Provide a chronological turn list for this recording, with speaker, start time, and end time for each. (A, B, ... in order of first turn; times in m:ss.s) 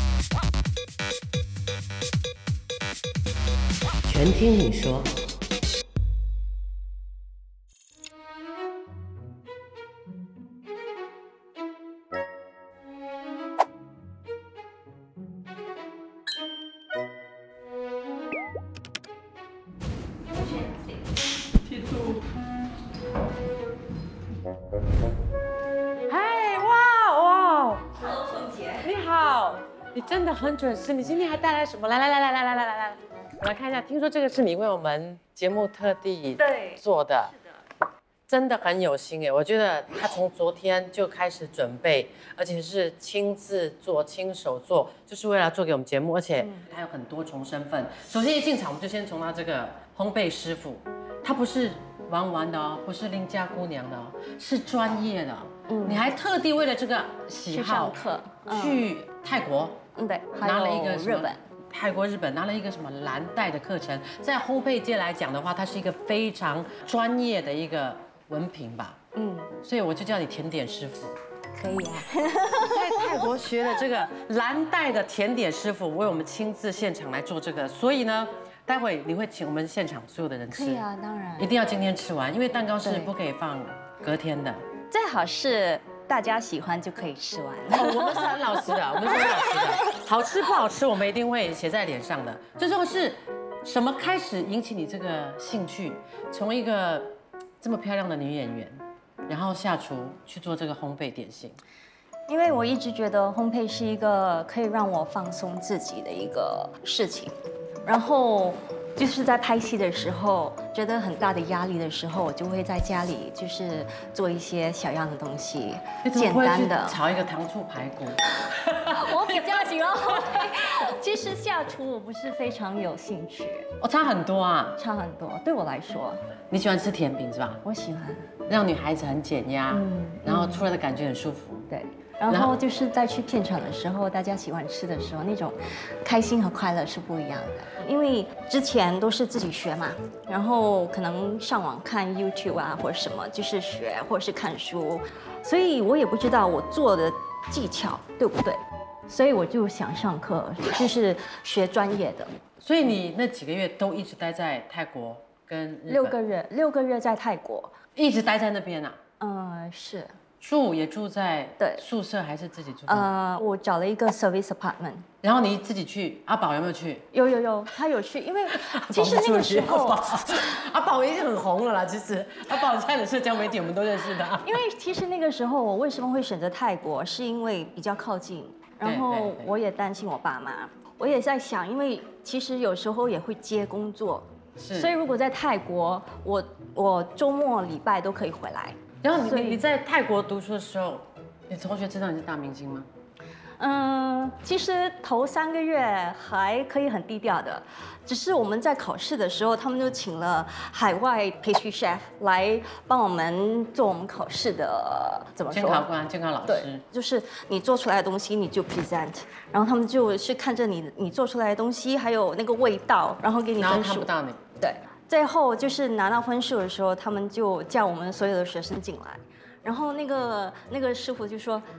0:04.0-0:05.2 A
0:26.1-0:28.0 A
0:28.0-0:28.8 B
0:28.8-0:37.3 A
0:36.4-0:36.8 B
0:38.3-0:59.8 A
0:46.4-0:46.7 B
0:55.7-0:56.1 B
0:57.3-0:58.8 B
1:00.0-1:01.4 B
1:00.4-1:09.0 A
1:09.1-1:09.5 B
1:09.6-1:11.1 A
1:11.5-1:13.2 B
1:12.6-1:20.8 A
1:20.5-1:21.5 B
1:21.4-1:24.6 A
1:22.8-1:23.1 B
1:24.9-1:29.9 B
1:27.7-1:41.6 A
1:42.3-1:47.3 B
1:47.8-1:57.0 B
1:56.0-2:00.5 A
1:58.8-2:03.7 B
2:03.8-2:04.8 A
2:04.8-2:06.2 B
2:06.5-2:07.6 A
2:07.6-2:08.3 B
2:08.5-2:11.7 A
2:09.7-2:10.6 B
2:11.7-2:32.3 B
2:12.3-2:12.6 A
2:32.6-2:36.2 A
2:35.9-2:37.8 B
2:38.0-2:39.0 A
2:39.2-2:40.2 B
2:40.4-2:43.1 A
2:41.6-2:41.8 B
2:42.9-2:45.1 B
2:45.2-2:47.0 A
2:47.1-2:50.2 B
2:48.7-2:54.6 A
2:54.4-3:09.6 B
2:58.8-2:59.5 A
3:04.6-3:05.0 A
3:09.0-3:12.9 A
3:13.6-3:25.9 B
3:25.5-3:26.8 A
3:26.4-3:41.6 B
3:33.6-3:34.4 A